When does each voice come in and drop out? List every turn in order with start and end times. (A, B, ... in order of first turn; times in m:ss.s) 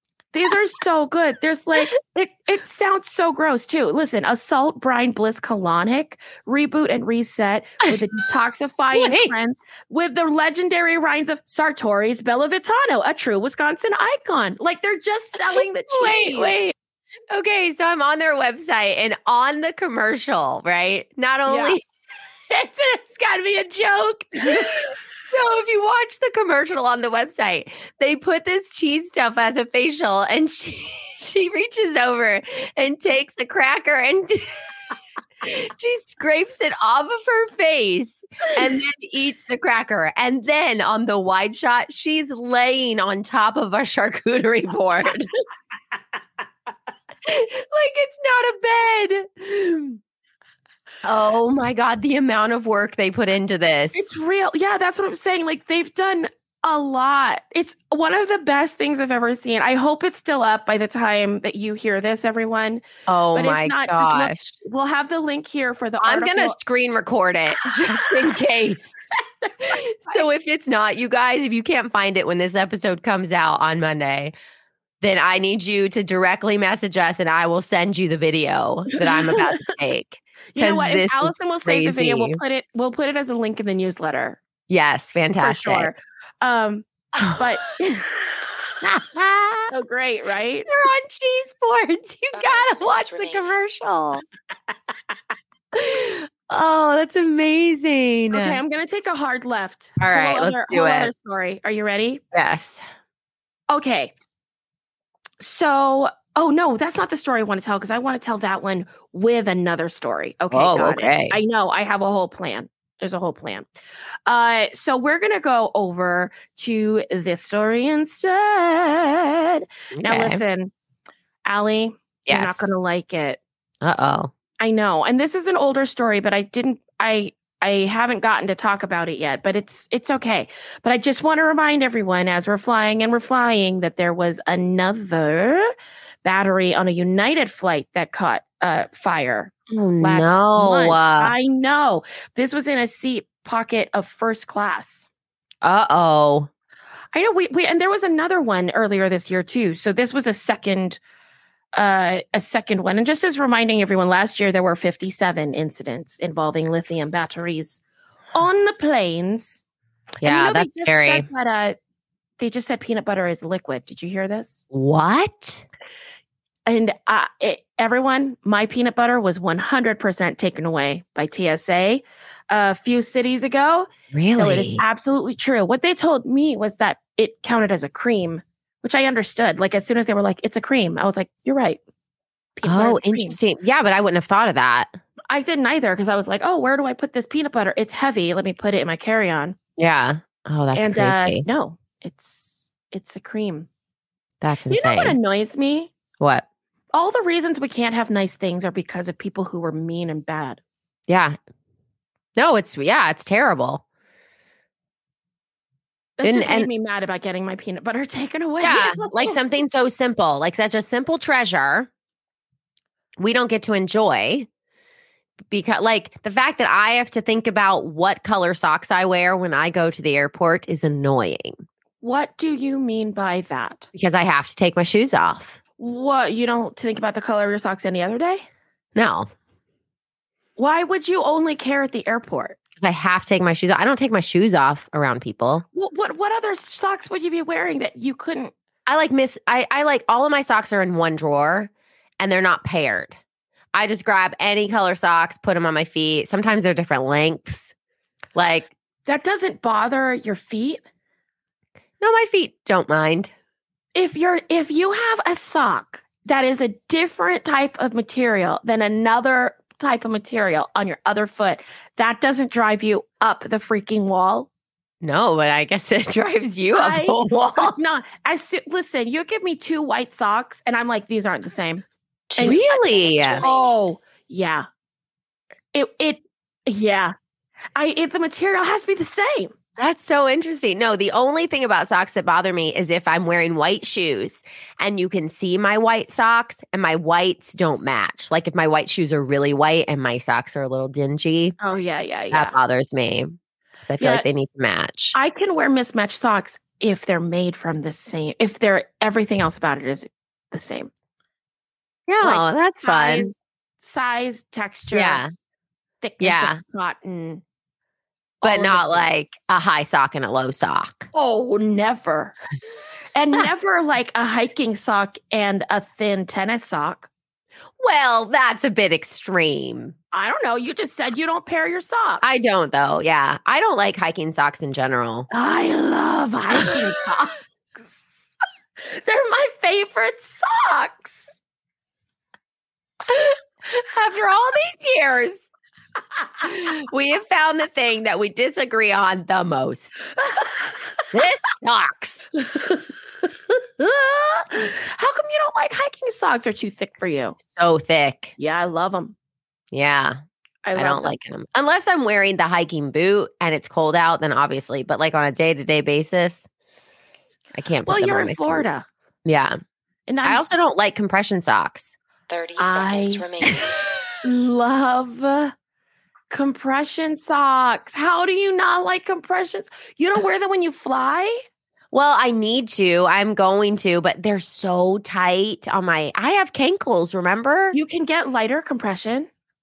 0:00.3-0:16.7 A
0:08.9-0:09.3 B
0:15.5-0:16.7 B
0:17.3-0:21.8 B
0:21.5-0:21.8 A
0:22.5-0:34.4 B
0:24.5-0:24.7 A
0:35.4-0:45.3 B
0:47.3-0:50.0 B
0:51.0-0:54.0 B
0:53.9-1:06.6 A
1:03.1-1:04.5 B
1:06.0-1:08.9 B
1:07.7-1:08.2 A
1:09.4-1:10.3 A
1:09.7-1:14.3 B
1:15.0-1:22.4 B
1:19.0-1:19.5 A
1:20.5-1:24.4 A
1:24.7-1:25.9 B
1:25.4-1:28.5 A
1:27.2-1:27.5 B
1:28.8-1:29.7 B
1:29.7-1:30.7 A
1:30.7-1:34.3 B
1:32.3-1:33.6 C
1:35.8-1:38.6 B
1:38.3-1:42.2 A
1:40.0-1:41.1 B
1:42.3-1:42.8 B
1:43.7-1:44.1 A
1:45.4-1:53.7 A
1:50.5-1:51.4 B
1:54.3-2:00.7 A
2:00.0-2:00.4 B
2:01.4-2:03.4 A
2:02.3-2:02.7 B
2:03.8-2:04.3 B
2:04.6-2:15.7 A
2:16.2-2:25.1 A
2:19.7-2:21.4 B
2:25.6-2:26.5 B
2:27.1-2:31.0 A
2:31.8-2:37.8 A
2:38.3-2:39.6 A
2:40.2-2:41.3 B
2:40.2-2:41.8 A
2:42.4-2:44.6 A
2:44.7-2:45.7 B
2:46.7-3:01.8 A
2:54.1-2:54.8 B
3:02.6-3:03.4 A
3:02.6-3:05.0 B
3:05.3-3:09.6 A
3:09.8-3:11.5 B
3:10.7-3:13.7 A
3:14.4-3:15.2 B
3:14.7-3:15.9 A
3:16.2-3:16.4 B
3:16.9-3:20.6 A
3:21.1-3:21.4 B
3:22.4-3:23.8 B
3:26.2-3:29.4 A
3:26.2-3:26.7 B
3:28.6-3:31.9 B
3:33.2-3:34.5 B
3:35.5-3:41.6 B
3:42.0-3:43.9 A
3:43.9-3:45.6 B
3:45.8-3:48.4 A
3:49.0-3:49.3 B
3:50.6-3:52.6 A
3:52.8-3:55.6 B
3:55.7-3:58.5 A
3:58.9-4:03.2 B
4:03.7-4:07.7 B
4:08.4-4:08.7 B
4:09.1-4:10.8 A
4:12.0-4:13.3 B
4:14.0-4:24.5 A
4:25.0-4:27.8 B
4:26.7-4:31.8 A
4:32.3-4:33.7 C
4:32.4-4:33.5 B
4:33.4-4:34.6 A
4:35.7-4:37.1 A
4:37.8-4:39.5 A
4:39.8-4:51.6 B
4:51.6-4:52.6 A
4:52.3-4:55.2 B
4:54.0-4:54.3 A
4:55.1-5:00.9 A
5:02.1-5:03.3 B
5:02.2-5:05.2 A
5:04.9-5:05.3 B
5:06.0-5:07.4 A
5:06.2-5:06.6 B
5:08.4-5:09.1 A
5:08.4-5:11.1 B
5:11.1-5:12.4 A
5:13.1-5:17.1 A
5:17.8-5:20.0 B
5:20.1-5:22.4 A
5:22.2-5:25.3 B
5:25.3-5:27.4 A
5:28.9-5:31.4 A
5:33.1-5:35.5 B
5:36.4-5:40.0 B
5:40.2-5:41.0 A
5:41.1-5:42.3 B
5:42.4-5:47.4 A
5:47.5-5:48.3 B
5:48.4-5:49.2 A
5:49.7-5:50.2 B
5:50.6-5:51.2 A
5:50.8-5:56.5 B
5:57.6-5:58.7 B
5:57.9-5:58.9 A
5:59.2-5:59.6 B
6:00.1-6:00.4 A
6:00.2-6:01.9 B
6:02.3-6:03.8 C
6:02.6-6:03.3 A
6:04.2-6:05.5 A
6:06.3-6:11.4 A
6:11.9-6:17.8 B
6:17.7-6:19.3 A